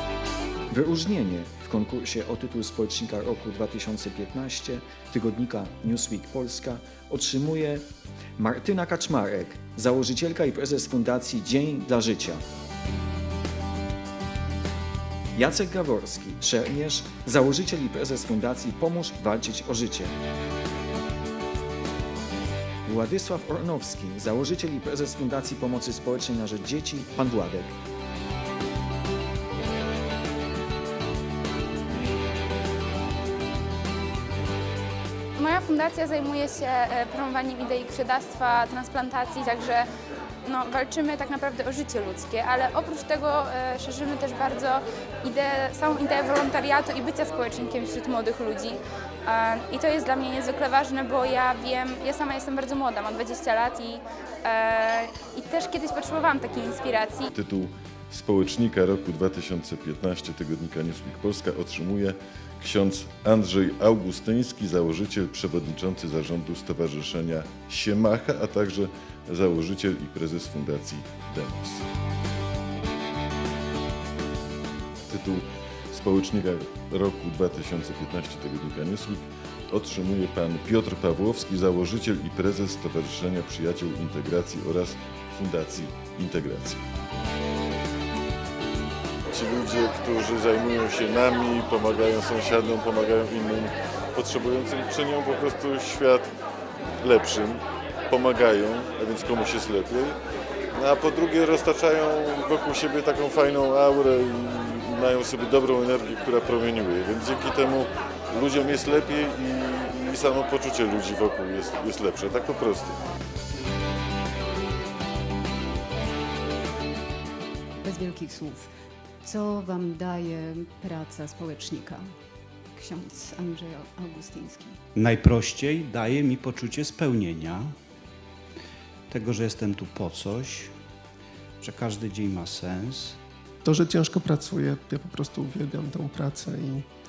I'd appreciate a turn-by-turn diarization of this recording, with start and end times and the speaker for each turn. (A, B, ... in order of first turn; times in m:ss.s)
0:00.7-0:07.8 A
0:08.4-0:12.4 A
0:15.3-0:20.1 A
0:22.8-0:27.7 A
0:35.4-0:39.8 B
0:40.4-0:57.3 B
0:57.3-1:11.8 C
1:15.1-1:26.8 C
1:29.3-1:36.3 C
1:37.0-1:40.2 C
1:40.8-1:53.0 C
1:57.8-1:58.7 D
1:59.2-2:02.1 D
2:02.8-2:04.8 D
2:04.9-2:07.7 E
2:09.1-2:10.7 E
2:11.6-2:13.2 E
2:13.6-2:16.8 F